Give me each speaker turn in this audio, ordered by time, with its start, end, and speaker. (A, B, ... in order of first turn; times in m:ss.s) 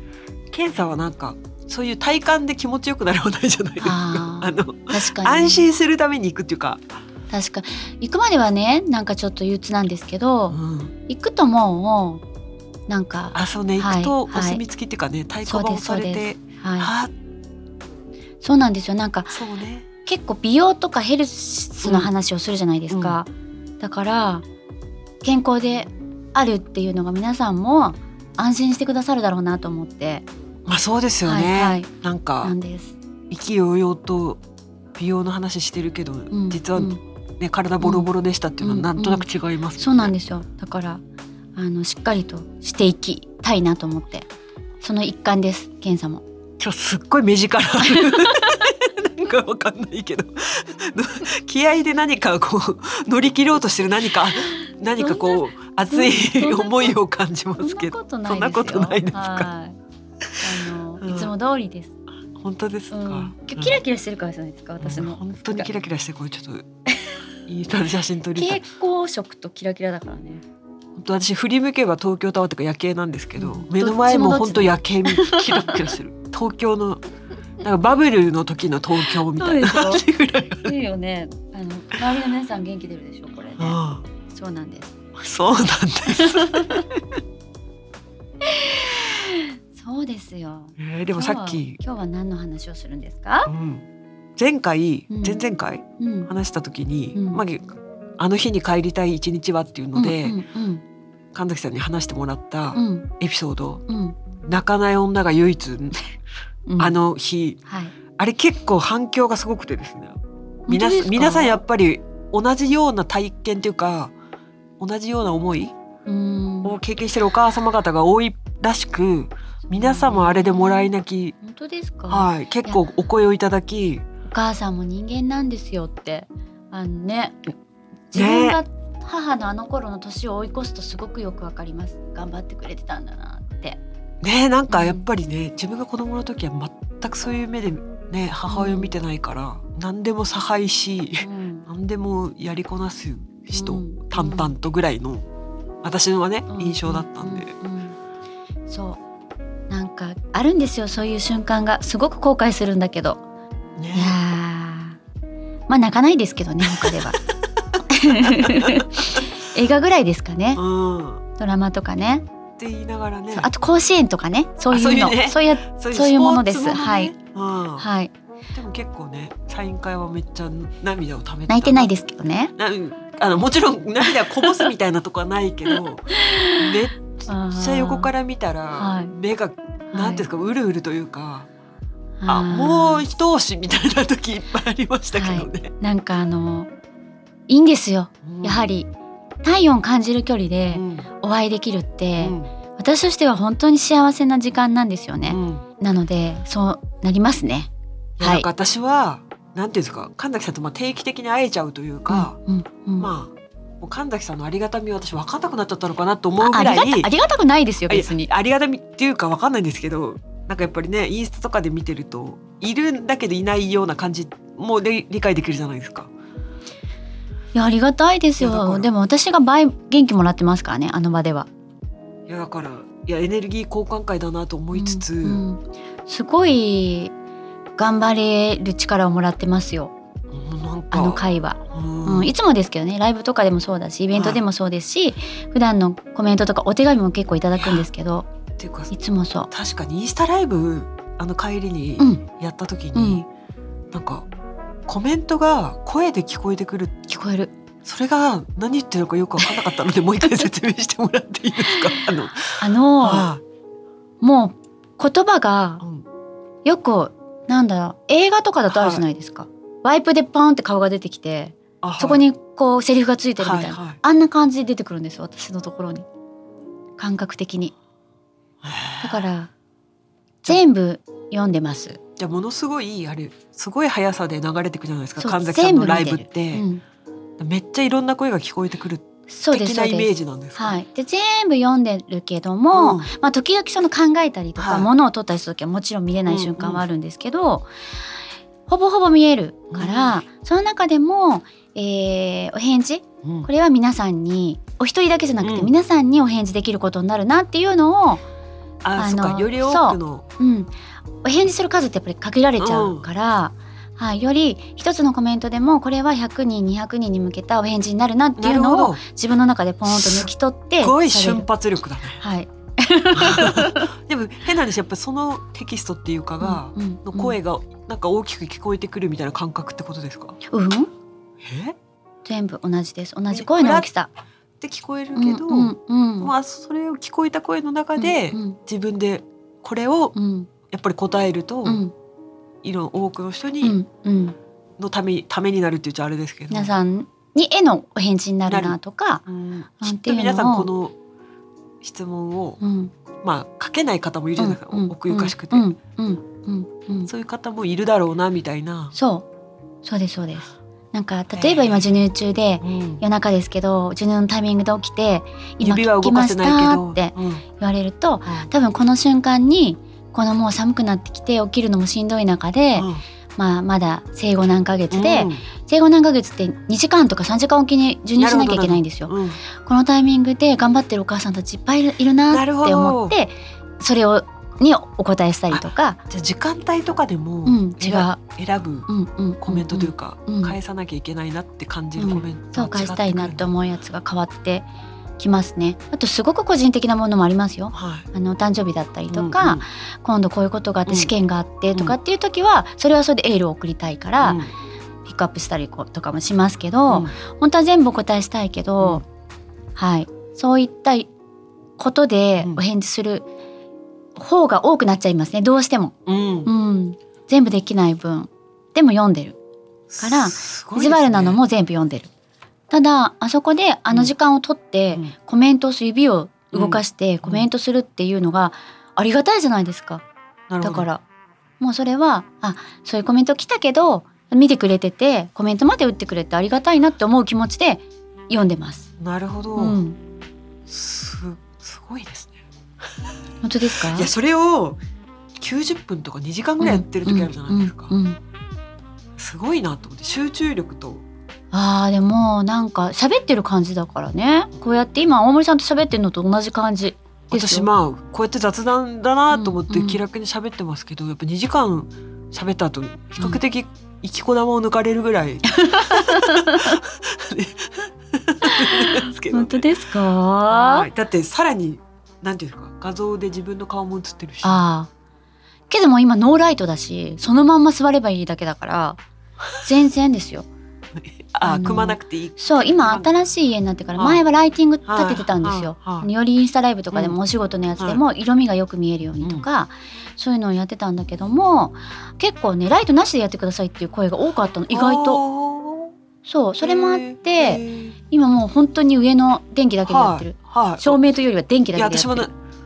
0:00.5-0:06.8 A
0:03.8-0:05.7 B
0:07.3-0:10.6 B
0:10.5-0:10.9 A
0:11.1-0:12.2 B
0:12.9-0:14.6 B
0:13.3-0:17.1 A
0:15.5-0:16.9 B
0:18.4-0:19.4 B
0:19.3-0:19.9 A
0:20.1-0:23.3 B
0:21.8-0:22.1 A
0:22.9-0:23.2 A
0:23.8-0:24.4 B
0:25.2-0:30.3 B
0:30.7-0:32.6 A
0:31.2-0:31.9 B
0:32.4-0:33.0 B
0:33.3-0:34.4 A
0:35.0-0:40.1 A
0:36.3-0:37.0 B
0:37.8-0:38.1 B
0:38.6-0:39.3 B
0:39.8-0:41.0 B
0:41.6-0:44.3 B
0:44.8-0:46.2 B
0:46.6-0:59.5 A
0:47.8-0:48.7 B
0:55.0-0:57.0 B
0:57.6-0:59.8 B
1:00.4-1:01.9 B
1:01.0-1:01.3 A
1:02.4-1:03.8 A
1:02.9-1:05.7 B
1:04.8-1:06.7 A
1:07.5-1:08.6 A
1:08.4-1:10.4 B
1:11.0-1:17.0 A
1:13.4-1:15.8 B
1:17.6-1:20.8 A
1:19.3-1:20.1 B
1:20.6-1:25.0 B
1:23.6-1:24.0 A
1:25.2-1:27.2 A
1:26.1-1:26.8 B
1:28.4-1:33.5 B
1:30.8-1:31.8 A
1:33.5-1:33.9 A
1:34.4-1:37.7 A
1:35.1-1:35.4 B
1:36.0-1:36.3 B
1:37.2-1:37.4 B
1:38.2-1:40.4 A
1:40.0-1:40.8 B
1:41.3-1:43.8 A
1:42.8-1:43.1 B
1:43.9-1:44.2 B
1:44.4-1:46.1 A
1:46.7-1:47.0 B
1:46.8-1:47.6 A
1:47.7-1:48.0 B
1:48.2-1:54.1 A
1:50.7-1:51.6 B
1:54.8-1:55.8 A
1:56.1-1:56.8 B
1:56.6-2:01.4 A
1:59.7-2:02.8 B
2:02.1-2:04.1 A
2:04.3-2:07.4 B
2:08.1-2:13.8 B
2:08.2-2:08.6 A
2:14.2-2:25.3 A
2:14.7-2:15.1 B
2:18.5-2:19.0 B
2:21.2-2:21.7 B
2:23.5-2:24.5 B
2:25.8-2:27.5 A
2:26.5-2:28.0 B
2:28.7-2:29.0 B
2:29.7-2:33.2 B
2:33.8-2:34.2 A
2:33.9-2:35.0 B
2:35.7-2:37.2 B
2:36.7-2:37.1 A
2:37.9-2:40.6 B
2:38.1-2:39.3 A
2:40.6-2:41.2 A
2:41.4-2:42.3 B
2:42.6-2:43.5 A
2:43.3-2:47.1 B
2:44.7-2:47.9 A
2:47.8-2:48.1 B
2:48.5-2:51.9 A
2:51.5-2:52.5 B
2:52.6-3:01.5 A
2:54.4-2:54.7 B
2:56.1-2:56.7 B
2:57.3-2:58.1 B
2:58.8-2:59.1 B
2:59.9-3:00.3 B
3:02.2-3:03.0 B
3:02.3-3:05.7 A
3:05.2-3:06.7 B
3:07.5-3:08.9 B
3:08.2-3:08.6 A
3:09.4-3:17.7 B
3:10.7-3:11.1 A
3:12.2-3:12.5 A
3:15.3-3:15.6 A
3:18.2-3:22.4 A
3:18.2-3:18.5 B
3:22.1-3:23.1 B
3:23.0-3:27.1 A
3:26.4-3:28.3 B
3:27.9-3:36.1 A
3:37.5-3:41.5 B
3:38.4-3:38.9 A
3:42.3-3:45.4 A
3:44.7-3:47.1 B
3:47.8-3:49.9 B
3:50.3-3:52.3 A
3:50.9-3:58.3 B
3:54.1-3:54.4 A
3:57.6-3:57.9 A
3:58.6-3:58.9 A
3:58.9-3:59.5 B
3:59.5-4:03.2 A
4:02.0-4:02.2 B
4:03.0-4:03.3 B
4:03.9-4:04.3 A
4:04.9-4:07.0 A
4:07.1-4:07.5 B
4:07.8-4:13.4 A
4:11.7-4:12.1 B
4:12.6-4:13.3 B
4:14.2-4:15.8 B
4:16.6-4:26.1 B
4:18.7-4:19.1 A
4:21.8-4:22.2 A
4:23.4-4:24.0 A
4:27.0-4:27.7 B
4:28.6-4:29.3 A
4:29.0-4:29.5 B
4:30.4-4:32.0 B
4:32.2-4:36.7 A
4:35.2-4:36.8 B
4:37.4-4:40.8 A
4:39.3-4:47.7 B
4:42.7-4:43.1 A
4:44.6-4:44.9 A
4:46.3-4:46.8 A
4:48.7-4:58.2 B
4:49.7-4:50.2 A
4:53.2-4:53.5 A
4:55.4-4:55.7 A
4:58.8-5:00.2 A
4:59.0-5:00.7 B
5:01.2-5:11.5 B
5:02.6-5:03.1 A
5:08.4-5:09.0 A
5:09.9-5:10.3 A
5:10.8-5:12.2 A
5:12.2-5:13.9 B
5:13.1-5:20.4 A
5:16.4-5:17.4 B
5:20.5-5:20.9 B
5:21.4-5:21.8 A
5:22.2-5:24.1 B
5:23.3-5:23.9 A
5:24.6-5:30.2 A
5:25.2-5:26.3 B
5:28.0-5:28.6 B
5:30.2-5:30.5 B
5:30.7-5:31.8 A
5:31.6-5:31.9 B
5:32.6-5:33.8 A
5:33.6-5:34.4 B
5:34.8-5:36.8 A
5:36.5-5:39.2 B
5:38.5-5:41.0 A
5:39.8-5:40.7 B
5:41.8-5:42.6 A
5:42.6-5:42.9 B
5:43.2-5:45.7 A
5:44.4-5:47.1 B
5:47.1-5:49.0 A
5:49.0-5:49.3 B
5:49.8-6:16.0 B
5:51.4-5:51.9 A
5:52.6-5:53.0 A
5:55.6-5:57.4 A
6:02.8-6:03.0 A
6:04.9-6:05.4 A
6:08.2-6:09.4 A
6:12.3-6:13.2 A
6:15.5-6:18.9 A
6:17.5-6:18.2 B
6:18.9-6:20.6 B
6:19.4-6:23.5 A
6:22.0-6:24.7 B
6:25.2-6:34.4 B
6:27.7-6:28.1 A
6:29.1-6:29.6 A
6:30.9-6:31.1 A
6:34.2-6:34.5 A
6:35.0-6:39.0 B
6:36.9-6:37.1 A
6:39.8-6:41.1 B
6:41.8-6:43.3 B
6:44.2-6:49.4 B
6:46.1-6:46.5 A
6:49.9-6:51.4 A
6:50.0-6:52.1 B
6:52.7-7:00.0 B
6:56.5-6:57.5 A
7:00.5-7:00.9 A
7:00.6-7:01.0 B
7:01.6-7:08.9 B
7:09.0-7:09.8 A
7:09.6-7:10.0 B
7:10.7-7:12.4 A
7:13.4-7:14.1 B
7:13.7-7:14.8 A
7:15.4-7:17.9 A
7:16.6-7:18.2 B
7:19.2-7:21.0 A
7:21.5-7:27.7 B
7:27.3-7:39.7 A
7:29.3-7:30.0 B
7:35.5-7:36.8 B
7:38.4-7:40.9 B
7:40.5-7:44.6 A
7:44.4-7:44.9 B
7:45.7-7:49.0 B
7:49.6-7:50.5 B
7:51.0-7:53.1 A
7:51.4-8:05.2 B
7:54.0-7:54.2 A
7:54.9-7:56.1 A
7:59.2-7:59.5 A
8:04.7-8:05.9 A
8:06.2-8:12.3 B
8:06.6-8:08.0 A
8:09.8-8:11.0 A
8:11.8-8:12.3 A